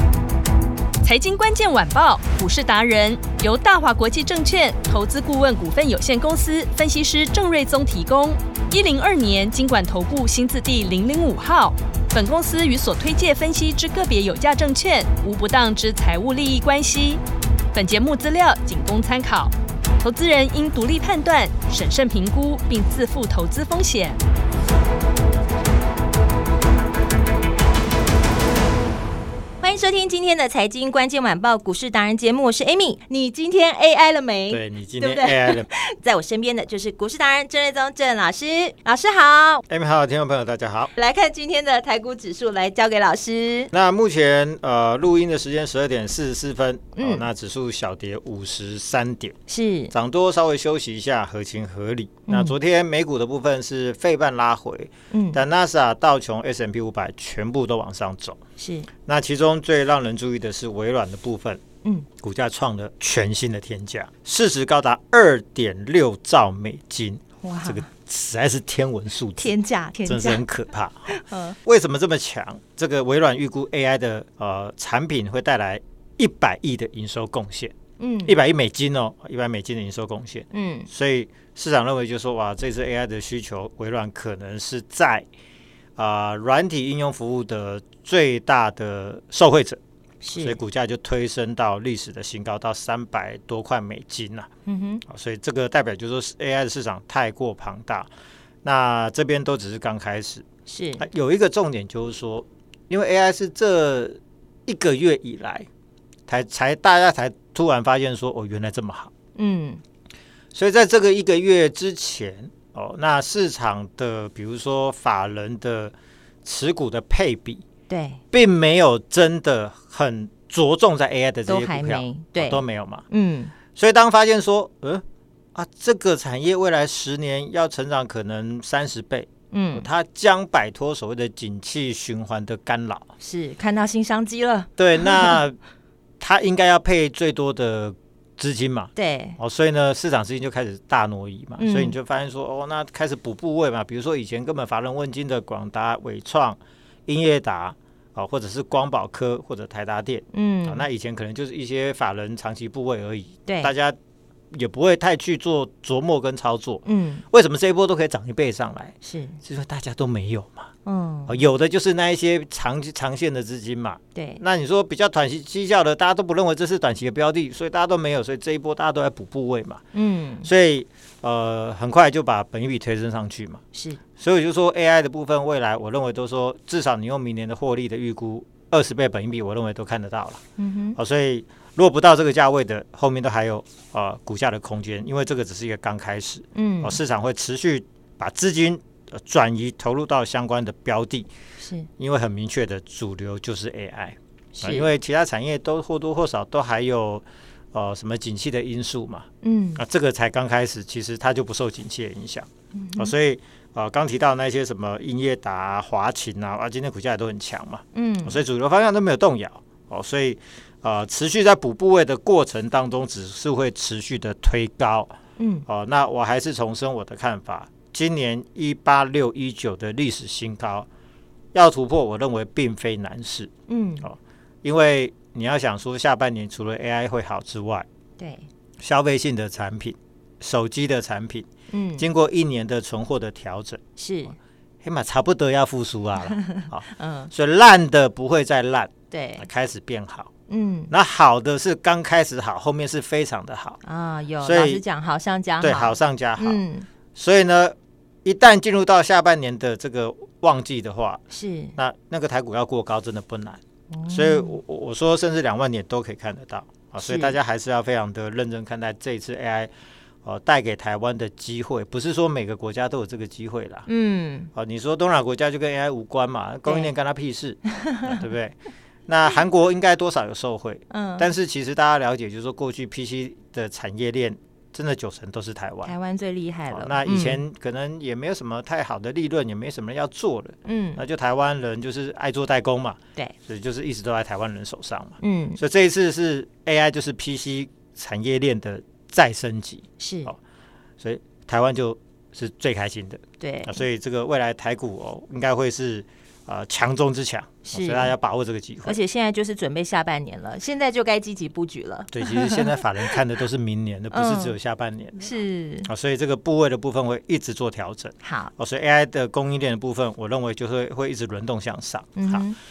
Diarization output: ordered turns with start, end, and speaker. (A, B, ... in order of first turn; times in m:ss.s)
0:01.0-0:17.2 A
0:17.7-0:24.2 A
0:29.6-0:39.6 B
0:34.5-0:35.7 C
0:39.7-0:40.9 C
0:40.9-0:43.7 B
0:43.7-0:49.4 C
0:47.0-0:47.3 B
0:49.5-0:49.9 B
0:49.9-0:58.4 C
0:52.3-0:52.6 B
0:55.1-0:55.4 B
0:58.6-0:58.9 B
0:59.0-1:01.6 C
1:02.2-1:09.5 C
1:07.4-1:07.9 B
1:09.4-1:10.4 B
1:10.0-1:17.7 C
1:11.1-1:11.6 B
1:18.0-1:18.4 B
1:18.2-1:25.3 C
1:20.5-1:20.9 B
1:26.0-1:29.8 C
1:30.2-1:30.6 B
1:30.3-1:34.5 C
1:34.6-1:35.0 B
1:35.0-1:38.1 C
1:38.6-1:40.4 C
1:40.6-1:41.0 B
1:41.0-1:45.7 C
1:46.3-1:49.1 C
1:49.4-1:49.8 B
1:50.5-1:55.9 C
1:56.4-1:57.6 C
1:57.9-1:58.2 B
1:58.3-2:03.0 C
2:01.5-2:03.5 B
2:03.7-2:05.0 C
2:05.5-2:13.1 C
2:09.5-2:09.9 B
2:13.2-2:15.4 B
2:14.8-2:15.6 C
2:16.2-2:34.0 C
2:19.0-2:19.4 B
2:21.6-2:22.0 B
2:30.3-2:30.8 B
2:33.4-2:33.7 B
2:34.5-2:40.7 C
2:36.8-2:37.2 B
2:39.0-2:39.4 B
2:40.8-2:41.4 B
2:41.3-2:49.8 C
2:44.1-2:44.4 B
2:49.9-2:50.5 B
2:50.4-2:53.6 C
2:53.7-2:54.0 B
2:54.2-3:00.4 C
3:00.6-3:01.0 B
3:01.0-3:11.3 C
3:06.5-3:07.0 B
3:11.6-3:11.9 B
3:12.0-3:35.2 C
3:14.6-3:14.9 B
3:19.4-3:19.8 B
3:22.7-3:23.1 B
3:27.9-3:28.4 B
3:35.4-3:35.6 B
3:35.7-3:40.9 C
3:41.5-3:43.5 C
3:43.7-3:44.1 B
3:44.0-3:47.8 C
3:48.2-3:48.4 B
3:48.8-3:53.8 C
3:51.7-3:52.1 B
3:54.0-3:54.3 B
3:54.8-4:00.3 C
3:56.3-3:57.3 B
3:59.1-3:59.4 B
4:00.5-4:00.9 B
4:00.9-4:03.8 C
4:03.8-4:06.9 B
4:04.4-4:04.8 C
4:05.6-4:11.2 C
4:11.3-4:11.8 B
4:11.8-4:19.7 C
4:13.9-4:14.6 B
4:17.0-4:17.4 B
4:20.2-4:23.9 C
4:23.9-4:24.5 B
4:24.5-4:35.9 C
4:26.6-4:26.9 B
4:30.9-4:31.3 B
4:35.8-4:37.4 B
4:36.7-4:50.4 C
4:40.6-4:41.0 B
4:45.2-4:45.6 B
4:50.0-4:50.3 B
4:51.0-4:59.0 C
4:53.4-4:53.8 B
4:57.6-4:58.1 B
4:58.8-5:02.8 B
5:02.1-5:05.3 C
5:04.1-5:04.6 B
5:05.2-5:05.9 B
5:05.8-5:12.5 C
5:08.2-5:08.5 B
5:12.2-5:12.6 B